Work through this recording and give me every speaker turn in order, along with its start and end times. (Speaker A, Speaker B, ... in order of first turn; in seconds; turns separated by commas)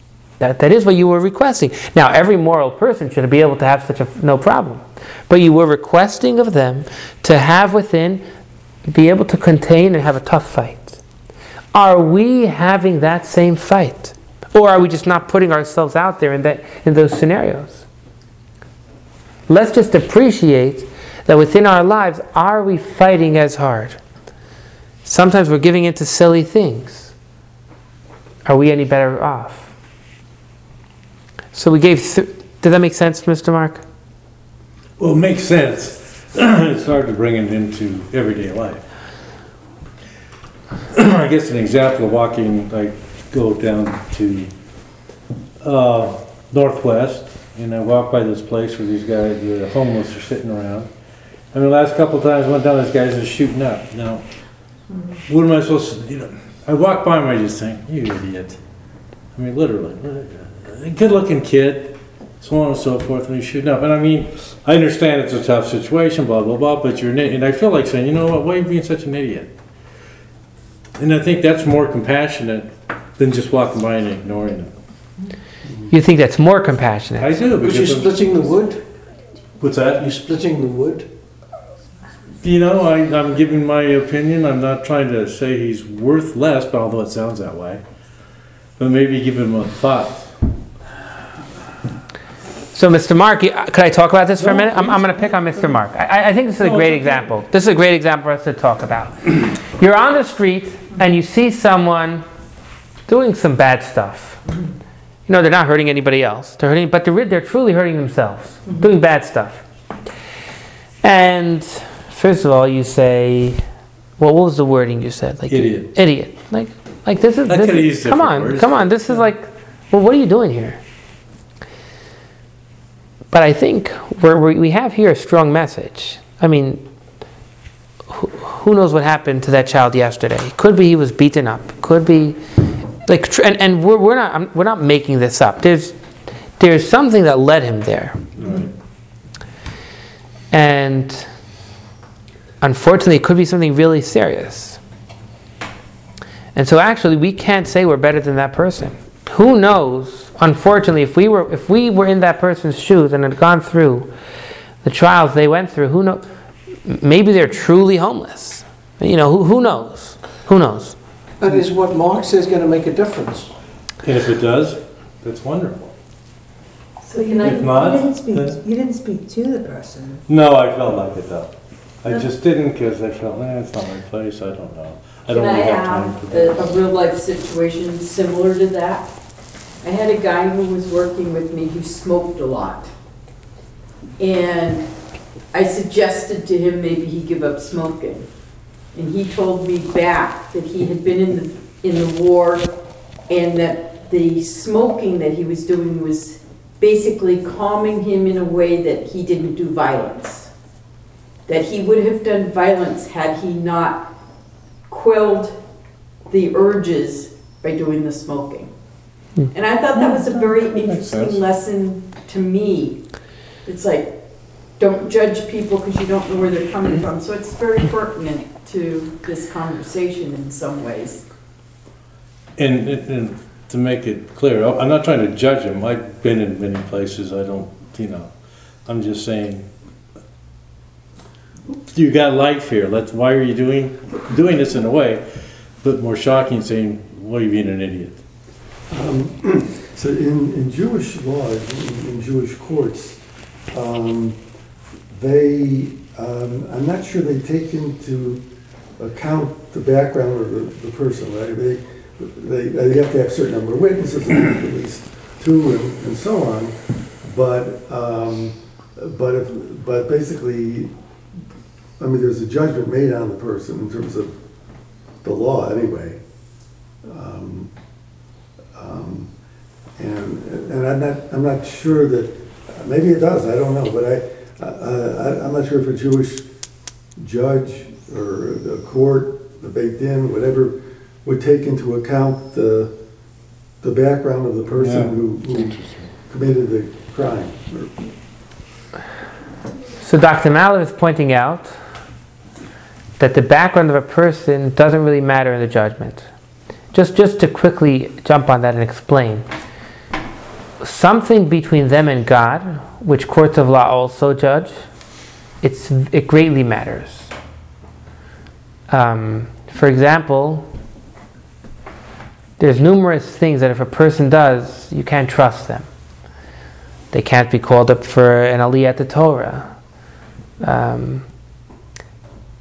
Speaker A: 0.4-8.2, Speaker A: 8.9-11.0, Speaker A: 11.7-17.9, Speaker A: 19.5-24.0, Speaker A: 25.0-27.1, Speaker A: 28.4-29.7, Speaker A: 31.5-33.8, Speaker B: 35.0-38.8, Speaker B: 40.9-44.5, Speaker B: 45.6-50.9, Speaker B: 51.5-54.2, Speaker B: 55.3-58.6, Speaker B: 59.3-69.5, Speaker B: 71.0-74.7, Speaker A: 75.9-77.4, Speaker B: 77.2-78.3, Speaker C: 77.5-78.8, Speaker B: 79.6-80.1, Speaker C: 80.0-81.1, Speaker B: 82.4-87.8, Speaker B: 88.8-90.3, Speaker A: 92.7-102.2, Speaker B: 94.4-95.0, Speaker B: 96.6-97.3, Speaker A: 103.1-104.4, Speaker A: 105.3-109.6, Speaker A: 111.0-113.6, Speaker A: 114.2-120.8, Speaker B: 115.5-115.9, Speaker B: 117.5-119.2, Speaker A: 123.3-126.8, Speaker A: 128.1-132.4, Speaker A: 133.1-135.9, Speaker A: 136.6-138.2, Speaker B: 138.4-138.7, Speaker A: 140.5-141.3, Speaker A: 142.6-144.8, Speaker A: 146.5-154.1, Speaker A: 154.8-156.2, Speaker A: 156.8-161.0, Speaker C: 161.4-163.5, Speaker B: 164.0-165.9, Speaker D: 167.0-170.2, Speaker E: 167.2-167.8, Speaker B: 167.3-168.6, Speaker B: 170.3-176.6, Speaker E: 175.3-179.1, Speaker E: 179.8-182.9, Speaker E: 184.2-184.8, Speaker E: 185.5-188.2, Speaker E: 188.9-192.7, Speaker E: 193.3-200.5, Speaker E: 201.5-204.1, Speaker E: 204.9-205.6, Speaker E: 206.3-208.7, Speaker E: 209.5-213.0, Speaker B: 210.4-211.4, Speaker E: 213.6-214.2, Speaker E: 214.8-221.2, Speaker B: 222.6-228.3, Speaker B: 228.8-229.7, Speaker B: 231.9-235.2, Speaker B: 235.8-238.2, Speaker F: 238.9-243.2, Speaker F: 243.7-244.4, Speaker F: 245.1-248.4, Speaker F: 249.0-260.9, Speaker F: 262.0-264.3, Speaker F: 265.2-266.2, Speaker F: 267.0-267.7, Speaker F: 268.7-269.3, Speaker F: 270.0-276.5, Speaker F: 277.2-282.9, Speaker F: 283.8-288.1, Speaker B: 284.8-286.1, Speaker A: 290.0-291.7, Speaker A: 293.2-296.2, Speaker A: 296.9-299.4, Speaker A: 300.8-304.7, Speaker A: 305.6-307.3, Speaker A: 308.9-310.7, Speaker A: 312.6-315.9, Speaker A: 317.1-319.7, Speaker A: 320.6-321.2